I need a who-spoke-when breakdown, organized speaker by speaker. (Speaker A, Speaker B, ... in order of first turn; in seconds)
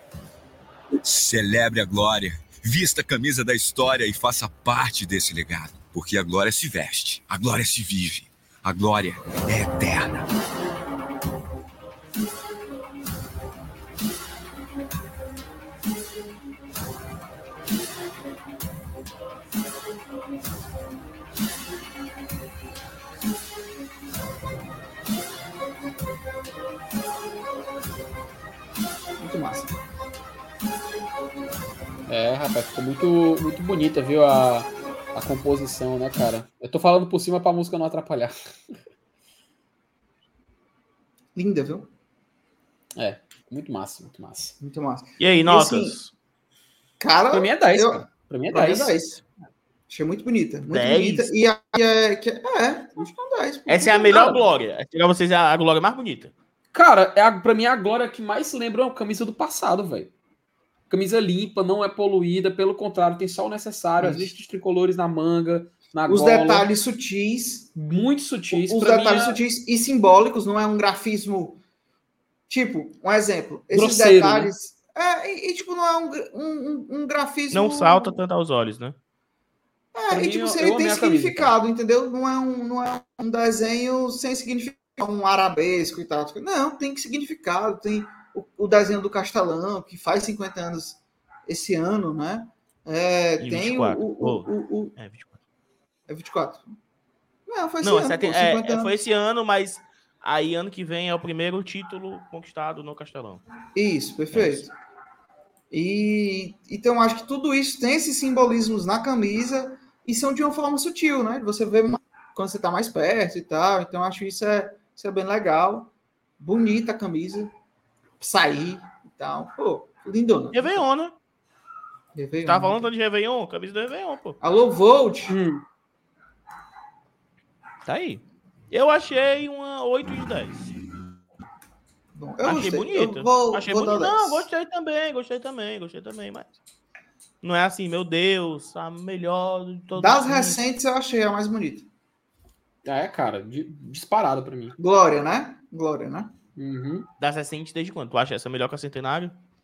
Speaker A: 1.0-10.3
Speaker B: 29.2-29.7, 41.3-41.9, 44.6-46.0, 47.0-49.2, 49.9-54.4, 64.0-64.3, 66.1-67.7, 68.5-71.6, 72.5-78.2, 79.9-94.9, 96.1-96.8, 97.5-99.0, 103.7-104.7, 105.7-117.5, 118.2-120.8, 122.1-122.9, 124.4-125.4, 132.1-134.5, 139.9-141.9, 144.8-146.3
Speaker C: 32.1-38.8, 43.0-44.5, 47.3-49.0, 56.7-60.1, 60.9-66.7, 67.8-69.4, 73.7-74.5, 80.1-81.5, 125.3-125.6, 142.8-144.8, 146.6-147.1
Speaker D: 45.2-46.1, 50.7-51.3, 53.7-56.3, 77.5-79.0, 93.4-95.4, 97.8-103.4, 104.3-104.7, 120.5-121.1, 122.4-124.4, 127.8-130.5, 132.4-136.6, 137.4-140.6, 147.2-149.3